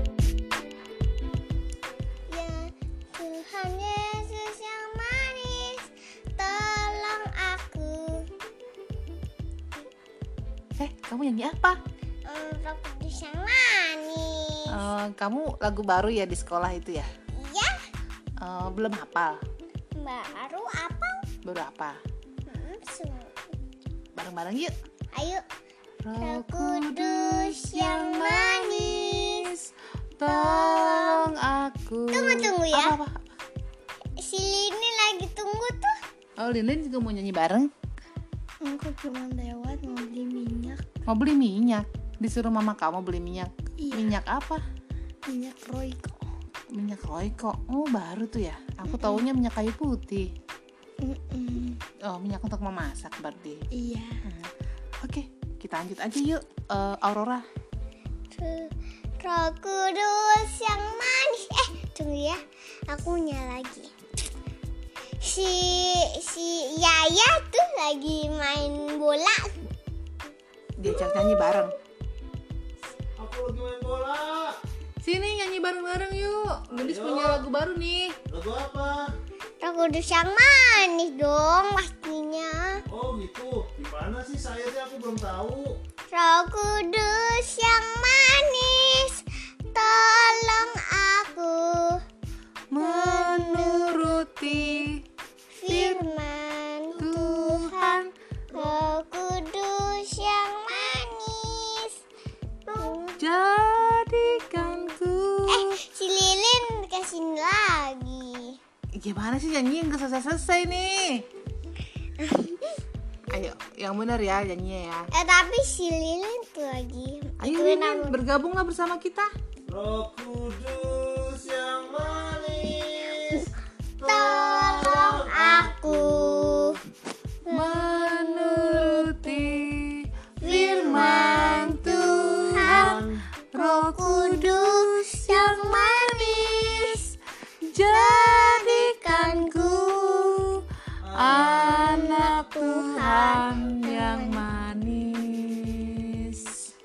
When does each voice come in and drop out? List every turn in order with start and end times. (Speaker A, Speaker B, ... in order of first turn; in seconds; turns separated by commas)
Speaker A: 2.3-8.3, Speaker B: 10.8-11.8, Speaker A: 12.2-14.9, Speaker B: 14.7-17.1, Speaker A: 17.3-17.8, Speaker B: 18.4-19.4, Speaker A: 19.9-21.2, Speaker B: 21.4-22.0, Speaker A: 22.5-23.4, Speaker B: 24.1-24.7, Speaker A: 25.1-25.4, Speaker B: 26.0-33.1, Speaker A: 26.2-29.5, Speaker A: 30.2-31.3, Speaker A: 32.1-33.0, Speaker A: 34.2-36.0, Speaker B: 36.4-37.7, Speaker C: 38.6-40.8, Speaker B: 41.1-44.6, Speaker C: 43.8-44.1, Speaker C: 45.3-46.2, Speaker B: 46.7-50.3, Speaker C: 51.0-51.8, Speaker B: 52.0-53.6, Speaker C: 53.7-54.2, Speaker B: 54.2-54.5, Speaker B: 55.0-57.4, Speaker A: 58.3-63.9, Speaker A: 65.2-69.6, Speaker B: 70.8-71.7, Speaker D: 73.2-74.6, Speaker B: 75.0-78.2, Speaker D: 76.7-77.4, Speaker D: 78.3-79.0, Speaker A: 79.6-82.8, Speaker D: 82.9-85.7, Speaker A: 86.1-92.0, Speaker B: 92.7-95.0, Speaker A: 92.8-94.8, Speaker A: 95.5-102.0, Speaker B: 95.7-96.0, Speaker B: 97.0-98.1, Speaker A: 102.7-103.3, Speaker B: 103.2-105.7, Speaker A: 105.5-108.6, Speaker B: 108.9-111.3, Speaker A: 112.2-112.8, Speaker B: 113.3-115.1, Speaker A: 115.1-118.2, Speaker B: 117.4-119.3, Speaker D: 119.7-123.5, Speaker D: 124.0-125.9, Speaker A: 124.0-126.8, Speaker A: 127.5-129.6, Speaker B: 127.5-133.0, Speaker A: 130.4-133.0, Speaker D: 132.6-133.1, Speaker B: 133.5-137.0, Speaker A: 133.5-137.1, Speaker B: 137.7-140.6, Speaker A: 137.8-140.4, Speaker D: 141.0-141.8, Speaker B: 141.1-146.7, Speaker A: 141.2-144.4